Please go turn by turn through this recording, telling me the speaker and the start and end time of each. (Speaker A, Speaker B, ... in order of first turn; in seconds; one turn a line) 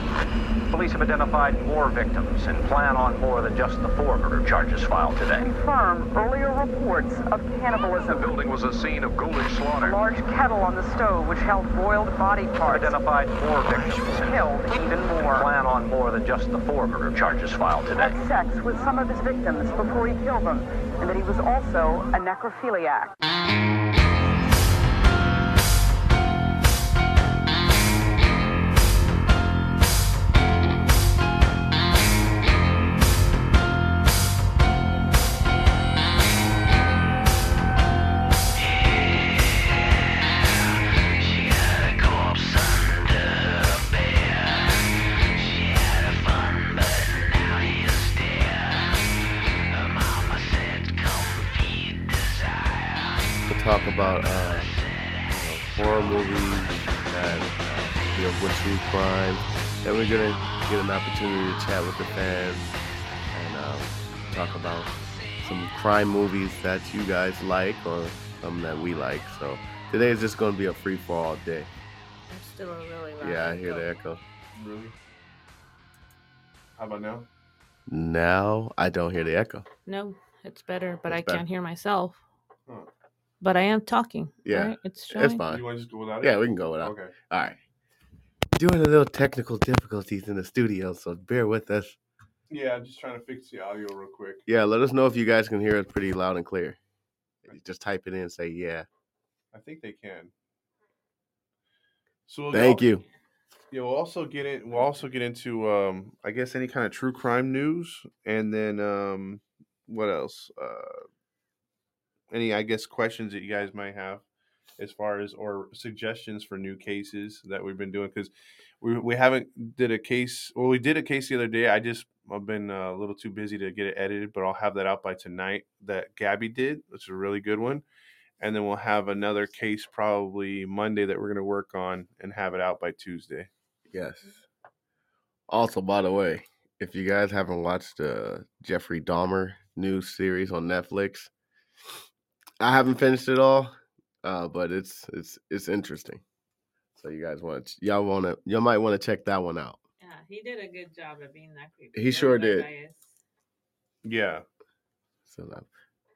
Speaker A: 0.7-5.5
Speaker B: 5.3-8.3
Speaker A: 8.0-10.0
Speaker B: 9.8-13.1
Speaker A: 12.7-18.2
Speaker B: 13.7-15.5
Speaker B: 17.9-23.1
Speaker C: 53.5-54.8
Speaker C: 55.3-62.8
Speaker C: 63.3-71.7
Speaker D: 72.3-73.9
Speaker C: 73.2-74.2
Speaker E: 74.5-75.0
Speaker E: 76.8-77.3
Speaker C: 77.9-79.7
Speaker D: 79.9-82.2
Speaker C: 81.1-81.4
Speaker D: 83.4-85.4
Speaker C: 84.5-85.6
Speaker E: 85.5-87.1
Speaker C: 86.2-87.6
Speaker C: 88.6-92.0
Speaker E: 92.5-94.4
Speaker C: 94.5-96.8
Speaker C: 97.5-98.9
Speaker E: 99.5-100.3
Speaker E: 102.3-102.8
Speaker C: 102.5-103.0
Speaker E: 103.7-111.0
Speaker E: 112.3-114.2
Speaker E: 114.8-127.8
Speaker E: 128.4-133.5
Speaker C: 133.9-134.4
Speaker C: 135.5-141.3
Speaker C: 142.6-146.2
Speaker C: 147.0-149.8
Speaker D: 150.0-153.1
Speaker C: 151.9-152.7
Speaker E: 154.1-154.4
Speaker C: 155.3-155.7